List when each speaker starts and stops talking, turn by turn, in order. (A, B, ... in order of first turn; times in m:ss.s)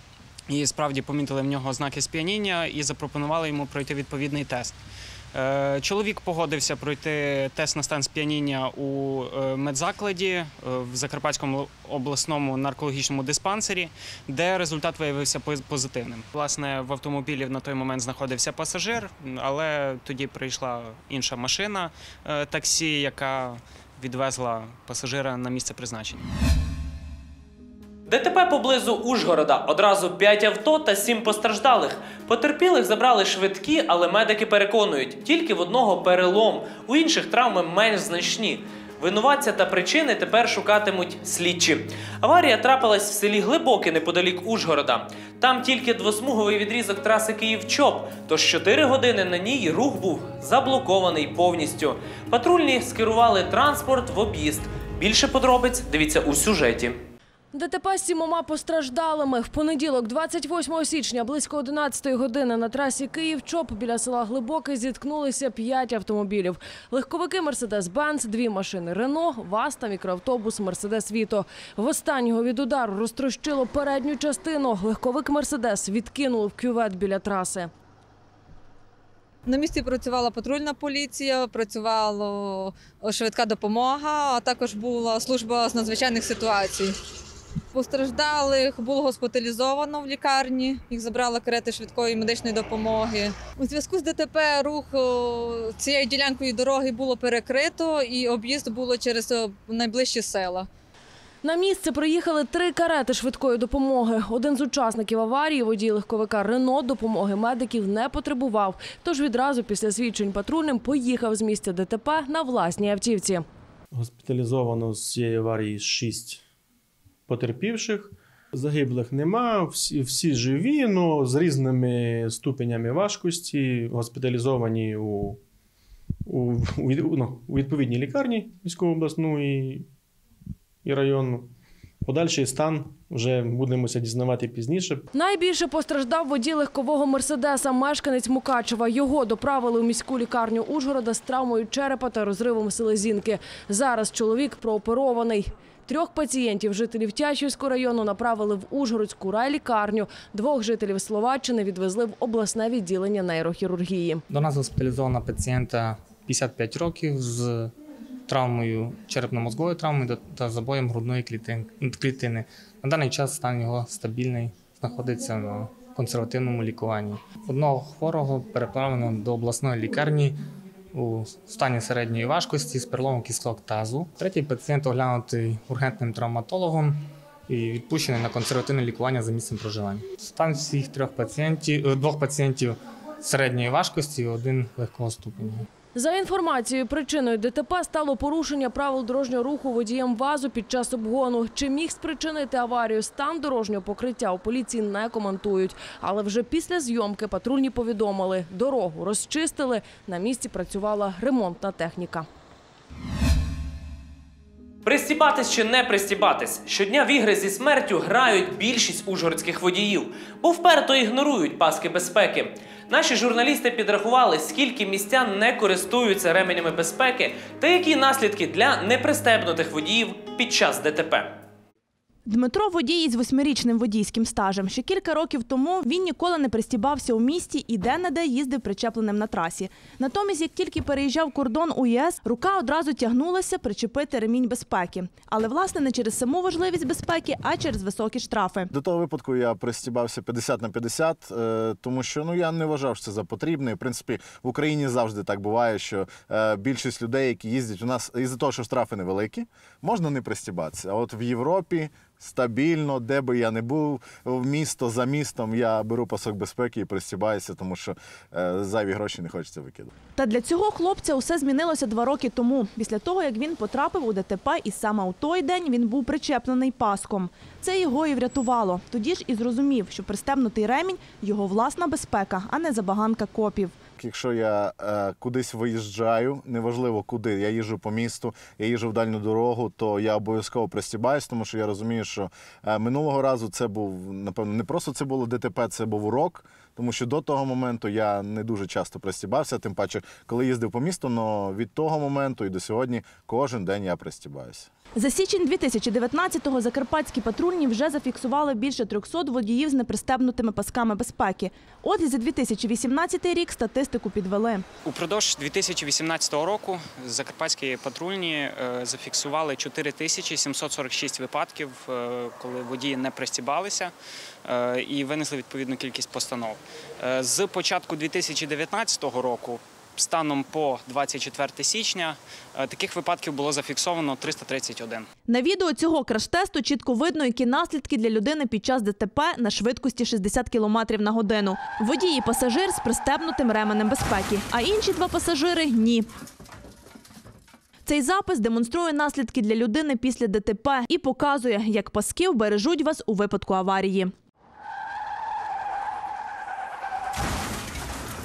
0:00.5-0:04.8 A
0:05.3-0:26.2 A
0:28.1-0:57.0 B
0:57.5-1:17.7 C
1:19.4-1:27.0 D
1:27.7-1:40.7 D
1:41.4-1:53.4 C
1:53.9-1:56.4 E
1:57.3-2:05.4 E
2:06.2-2:09.8 E
2:10.8-2:11.5 E
2:12.0-2:15.0 E
2:15.1-2:34.2 C
2:34.3-2:37.7 F
2:38.3-2:50.4 F
2:50.9-3:05.7 F
3:05.9-3:22.3 C
3:24.8-3:41.3 B
3:42.2-3:58.7 G
3:58.7-4:19.9 H
4:20.1-4:33.8 G
4:34.0-4:54.7 H
4:55.0-5:04.6 G
5:04.8-5:13.9 A
5:14.4-5:25.1 A
5:25.3-5:36.1 G
5:37.8-5:44.1 G